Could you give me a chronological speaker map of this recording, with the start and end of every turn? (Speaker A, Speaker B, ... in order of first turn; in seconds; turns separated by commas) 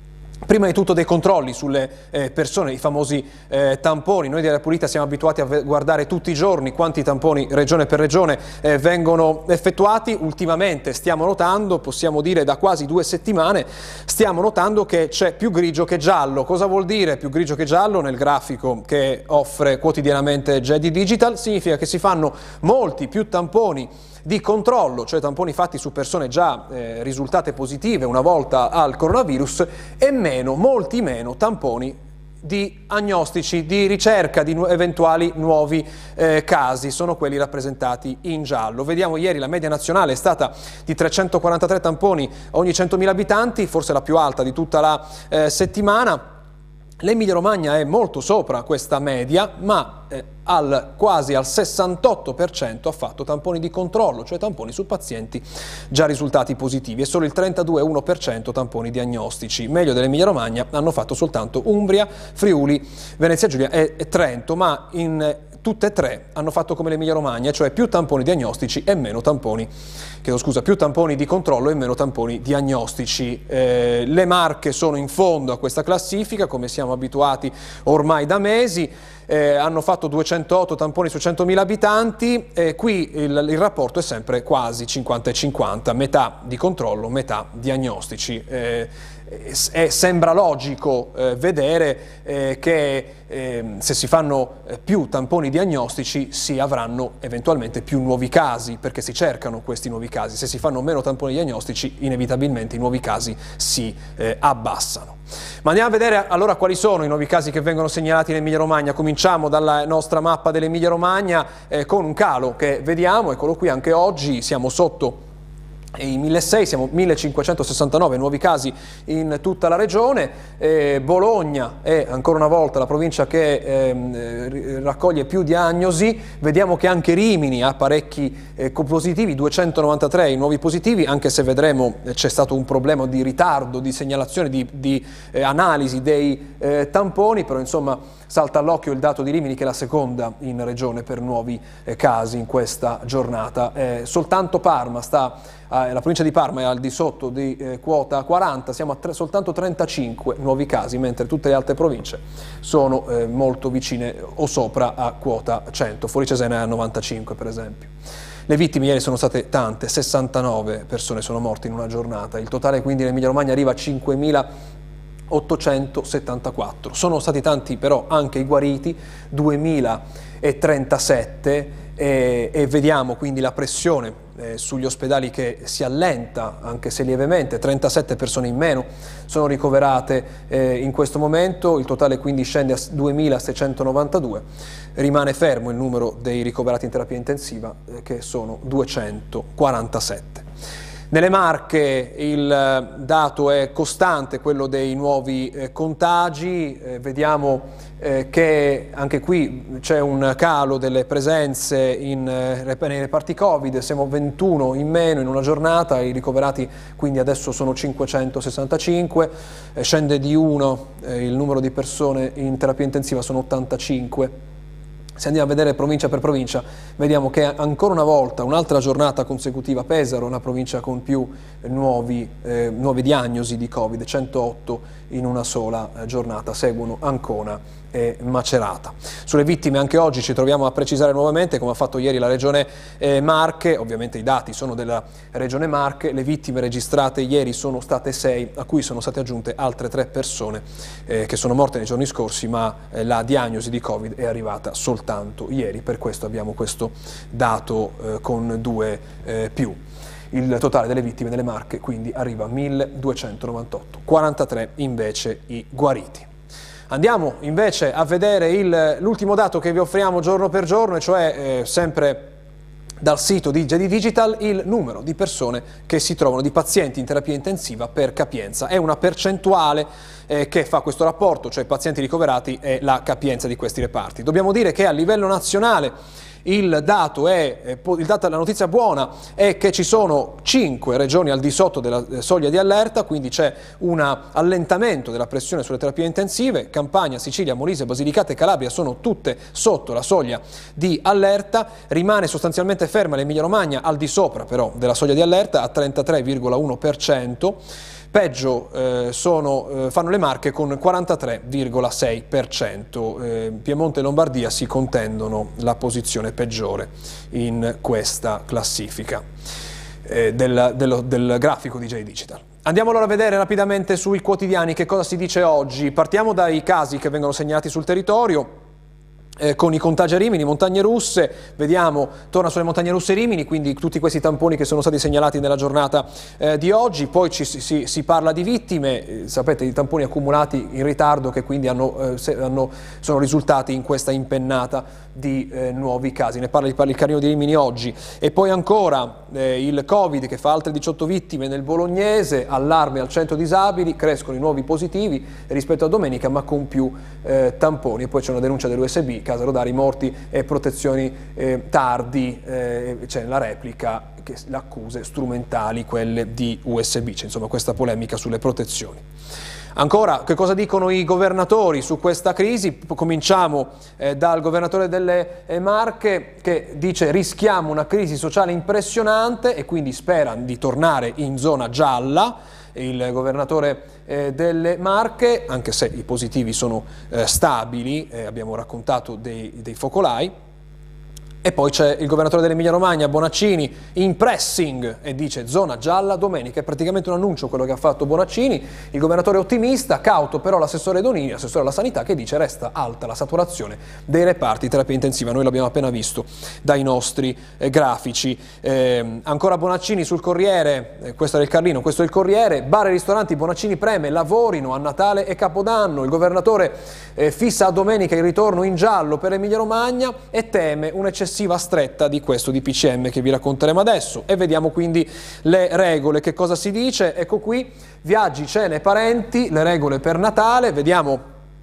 Speaker A: 0.5-46.2, Speaker A: 47.0-69.7, Speaker A: 70.2-115.2, Speaker A: 116.0-157.9, Speaker A: 158.5-164.4, Speaker A: 165.3-184.4, Speaker A: 184.9-190.4, Speaker A: 191.1-214.3, Speaker A: 215.2-249.8, Speaker A: 250.3-256.3, Speaker A: 256.9-262.3, Speaker A: 263.0-275.9, Speaker A: 276.4-297.6, Speaker A: 298.1-309.2, Speaker A: 310.0-318.5, Speaker A: 319.4-359.0, Speaker A: 359.8-380.3, Speaker A: 381.4-421.2